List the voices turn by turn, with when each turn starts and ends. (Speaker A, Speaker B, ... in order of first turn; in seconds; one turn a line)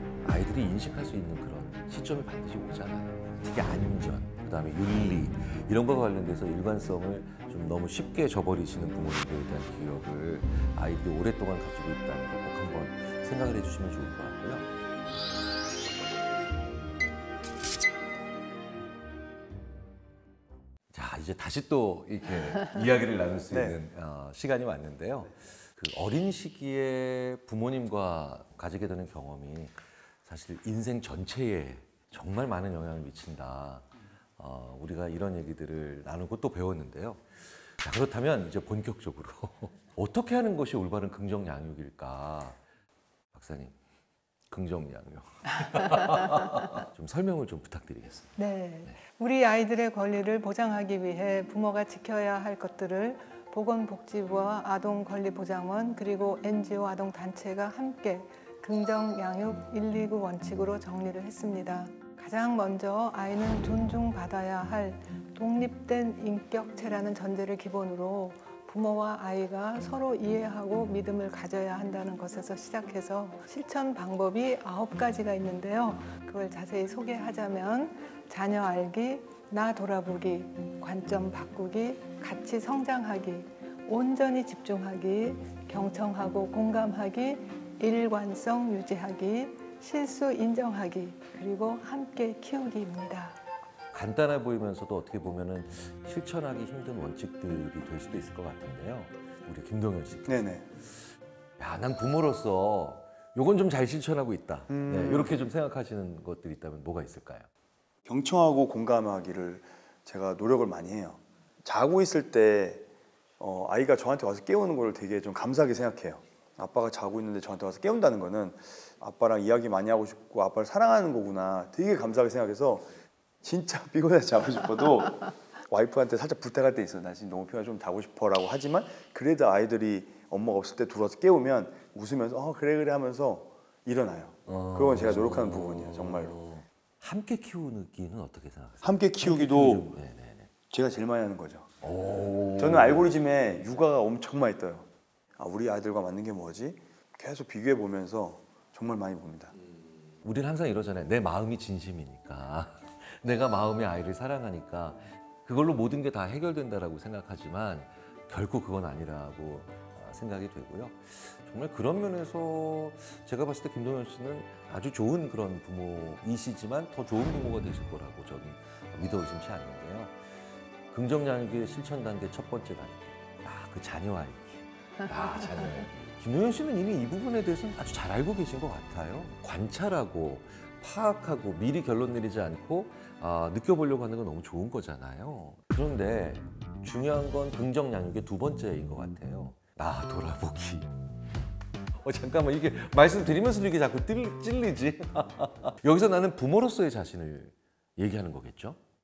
Speaker A: 0.2-14.7
Speaker A: 20.9-33.9
Speaker B: 23.5-23.8
Speaker A: 34.4-42.6
Speaker A: 43.3-43.7
Speaker A: 44.5-48.4
Speaker C: 48.4-93.4
Speaker A: 93.9-100.6
Speaker B: 100.2-100.6
Speaker A: 101.6-107.5
Speaker B: 104.7-105.4
Speaker B: 108.0-112.8
Speaker B: 113.4-136.4
Speaker A: 134.5-140.5
Speaker B: 138.8-139.9
Speaker B: 140.7-141.7
Speaker A: 141.8-143.1
Speaker B: 142.6-149.5
Speaker A: 150.2-170.1
Speaker A: 170.9-190.9
Speaker C: 175.3-175.7
Speaker A: 192.0-198.8